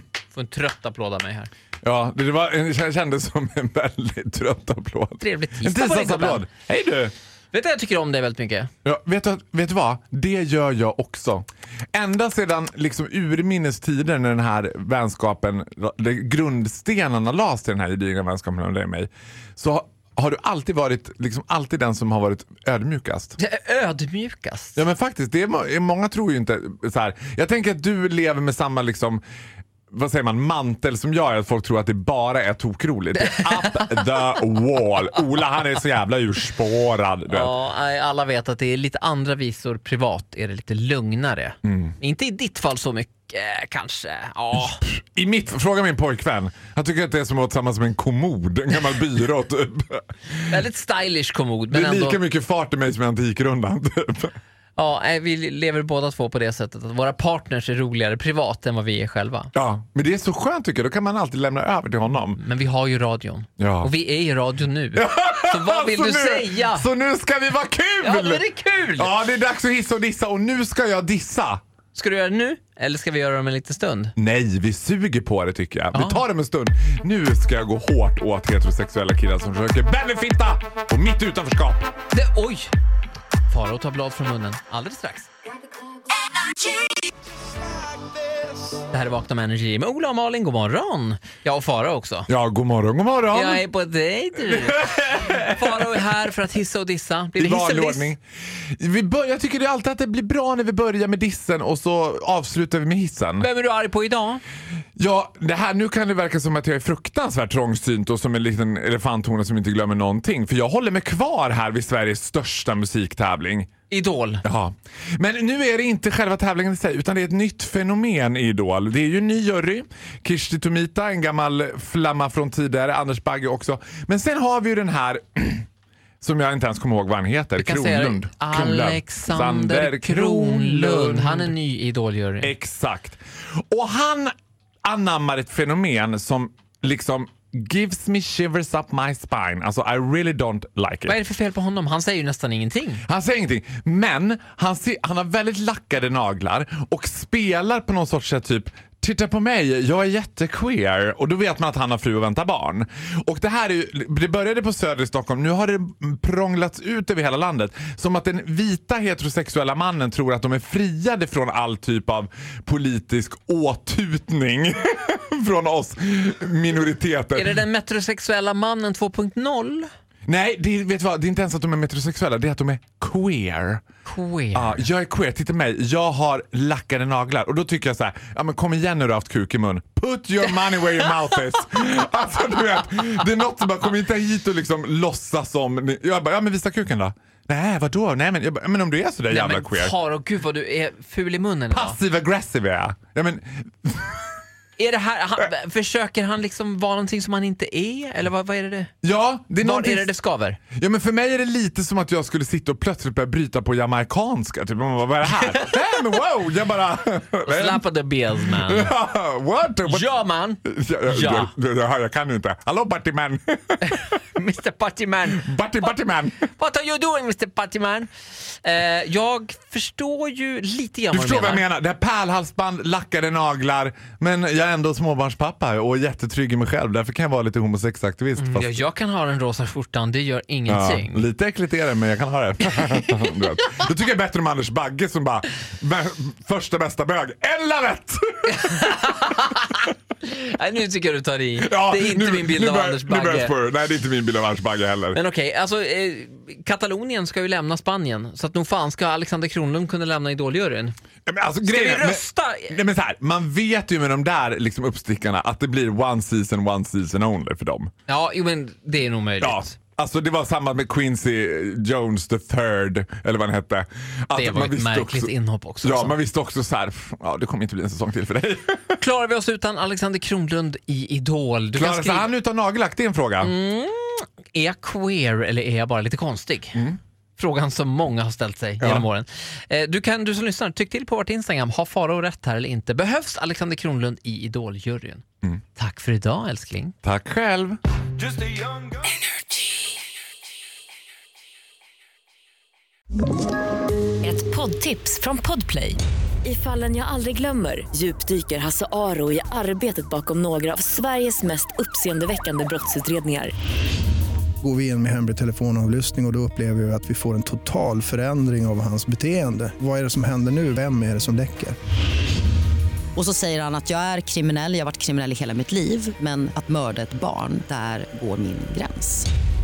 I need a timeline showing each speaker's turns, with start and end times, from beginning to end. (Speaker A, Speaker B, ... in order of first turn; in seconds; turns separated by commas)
Speaker A: 0.3-1.5, Speaker B: 1.8-7.1, Speaker A: 5.2-6.5, Speaker A: 7.5-8.7, Speaker B: 8.8-23.4, Speaker A: 23.4-24.8, Speaker B: 24.8-29.2, Speaker B: 29.9-37.5, Speaker A: 33.2-34.0, Speaker A: 37.3-44.8, Speaker B: 41.6-41.9, Speaker B: 44.8-50.5, Speaker A: 50.4-52.2, Speaker B: 51.7-54.4, Speaker A: 54.8-59.5, Speaker B: 59.5-62.4, Speaker A: 62.4-66.9, Speaker B: 63.6-63.9, Speaker B: 64.9-68.5, Speaker A: 68.0-69.1, Speaker B: 69.0-71.6, Speaker A: 71.9-74.1, Speaker B: 74.2-81.9, Speaker A: 75.9-76.2, Speaker A: 82.1-82.7, Speaker A: 83.5-85.3, Speaker A: 88.9-92.3, Speaker B: 92.3-93.6, Speaker A: 93.3-98.1, Speaker B: 94.4-96.1, Speaker B: 97.4-98.2, Speaker B: 98.8-103.5, Speaker A: 103.4-104.4, Speaker B: 105.0-113.7, Speaker A: 113.9-114.4, Speaker B: 114.4-125.7, Speaker B: 126.2-131.5, Speaker A: 127.6-132.5, Speaker B: 132.4-133.2, Speaker B: 133.7-134.3, Speaker B: 134.8-141.2, Speaker A: 141.1-143.0, Speaker B: 143.1-167.6, Speaker A: 167.3-169.9, Speaker B: 170.3-173.8, Speaker A: 174.1-174.8, Speaker B: 174.5-189.9, Speaker A: 189.3-192.0, Speaker B: 191.7-194.3, Speaker A: 194.8-198.9, Speaker B: 199.0-200.1, Speaker A: 199.6-200.6, Speaker B: 200.8-207.8, Speaker A: 205.4-205.8, Speaker A: 207.5-208.9, Speaker B: 208.4-210.1, Speaker A: 209.9-211.5, Speaker B: 210.6-214.2, Speaker A: 213.9-215.5, Speaker B: 215.3-216.5, Speaker A: 216.5-221.7, Speaker B: 221.1-228.8, Speaker A: 228.4-231.3, Speaker B: 230.7-238.9, Speaker A: 238.5-243.5, Speaker B: 241.6-245.2, Speaker A: 245.1-250.9, Speaker B: 251.3-257.9, Speaker A: 251.6-252.8, Speaker A: 258.1-259.7, Speaker B: 259.4-269.0, Speaker A: 264.4-266.1, Speaker A: 269.0-272.3, Speaker B: 271.8-273.5, Speaker A: 273.4-276.8, Speaker A: 277.4-285.2, Speaker B: 278.8-279.1, Speaker A: 285.8-286.9, Speaker B: 287.0-287.8, Speaker C: 294.2-303.5, Speaker D: 304.6-311.8, Speaker E: 313.2-319.3